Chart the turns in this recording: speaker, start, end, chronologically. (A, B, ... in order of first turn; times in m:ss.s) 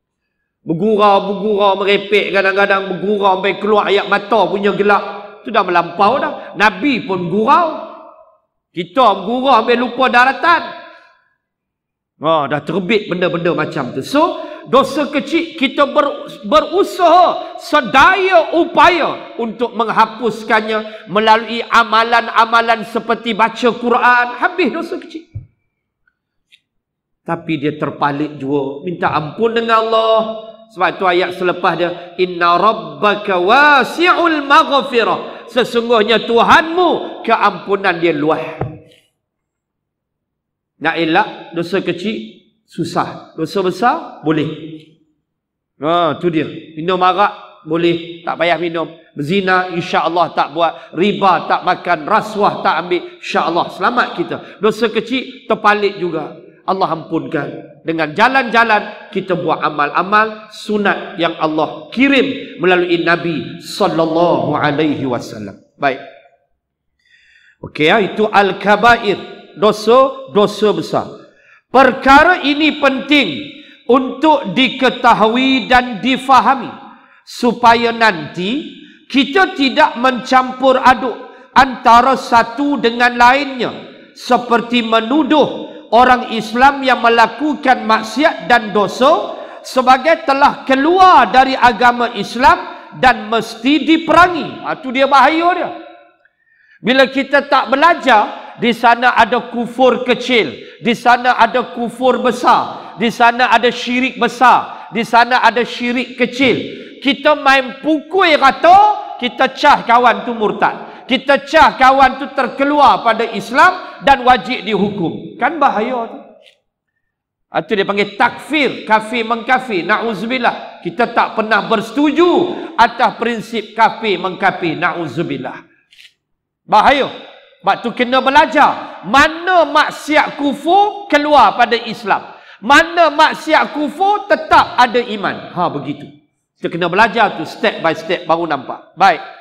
0:00.6-0:07.9 A
0:08.7-0:10.7 A
0:12.2-0:25.2 A
0:27.2-0:38.6 A
0:40.8-0:44.8 A
0:45.8-1:06.0 A
1:07.6-1:11.1 A
1:11.7-1:16.7 A
1:17.2-1:35.7 A
1:36.8-1:56.2 A
1:57.5-2:05.6 A
2:06.7-2:07.1 A
2:07.6-2:19.2 A